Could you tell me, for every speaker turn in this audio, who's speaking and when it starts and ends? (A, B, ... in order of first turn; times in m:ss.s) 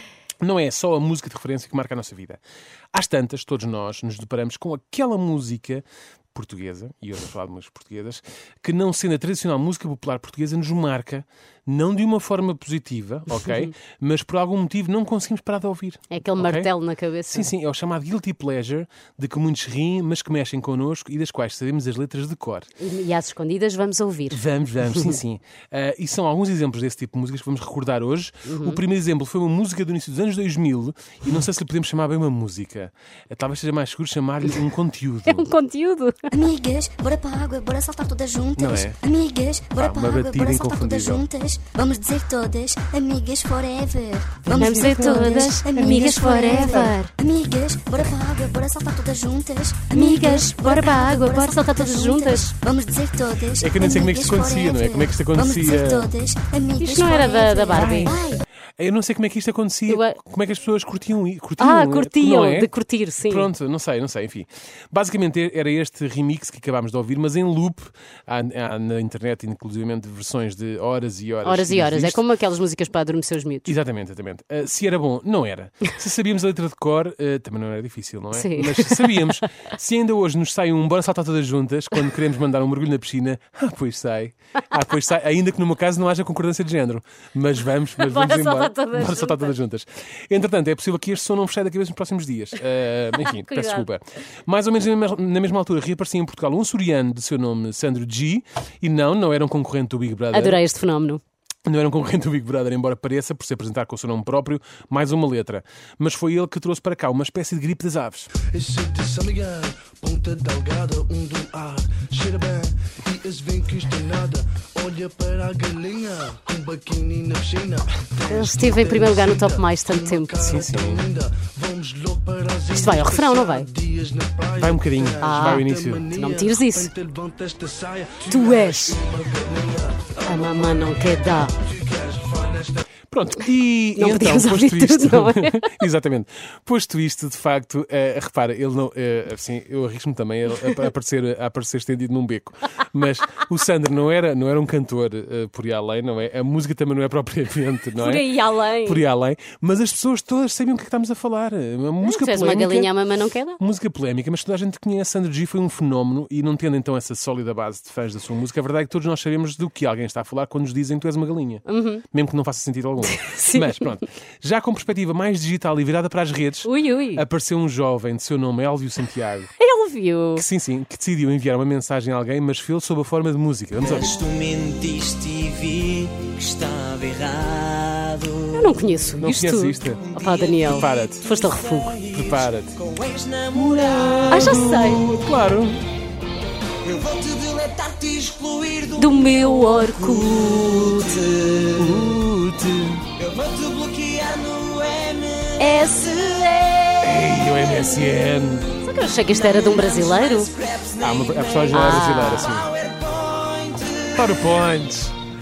0:00.4-0:02.4 A
0:02.9-0:16.7 A
0:16.1-0:17.5 B
0:17.3-0:22.7 A
0:22.8-0:25.2 B
0:24.3-0:35.5 A
0:28.4-0:28.8 B
0:35.3-0:36.3 B
0:36.3-0:58.4 C
0:38.6-0:39.0 A
0:39.8-0:41.3 A
0:44.5-0:46.9 A
0:44.5-0:47.1 B
0:49.9-0:52.5 B
0:53.6-0:56.1 A
0:56.8-0:58.2 B
0:57.7-0:58.2 A
0:58.8-1:02.7 A
0:59.9-1:00.2 B
1:01.6-1:03.5 B
1:03.3-1:12.2 A
1:11.4-1:13.7 B
1:13.7-1:40.6 A
1:18.3-1:19.3 B
1:28.0-1:29.6 B
1:33.2-1:33.9 B
1:40.3-1:41.2 B
1:41.6-1:48.3 A
1:48.5-2:10.1 D
1:58.2-2:00.7 B
2:00.4-2:01.0 A
2:02.7-2:03.7 B
2:04.5-2:06.1 A
2:05.2-2:06.9 B
2:08.2-2:09.0 B
2:10.2-2:11.5 B
2:11.7-2:12.8 D
2:13.1-2:32.9 A
2:14.0-2:15.8 B
2:28.0-2:29.0 B
2:32.0-2:33.6 B
2:33.6-2:49.5 A
2:41.7-2:42.0 B
2:43.1-2:43.9 B
2:46.6-2:47.2 B
2:49.6-2:50.4 B
2:50.4-2:54.1 A
2:53.8-2:58.8 E
2:58.5-3:01.9 B
2:59.2-3:01.4 A
3:00.0-3:04.7 E
3:02.1-3:02.8 A
3:03.5-3:05.8 A
3:04.3-3:05.1 B
3:06.8-3:12.2 E
3:09.0-3:11.3 B
3:11.8-3:13.0 A
3:13.2-3:16.3 E
3:15.6-3:17.3 B
3:17.0-3:18.7 A
3:18.8-3:20.5 B
3:19.3-3:24.3 E
3:21.0-3:22.7 A
3:21.7-3:22.5 B
3:24.1-3:25.2 A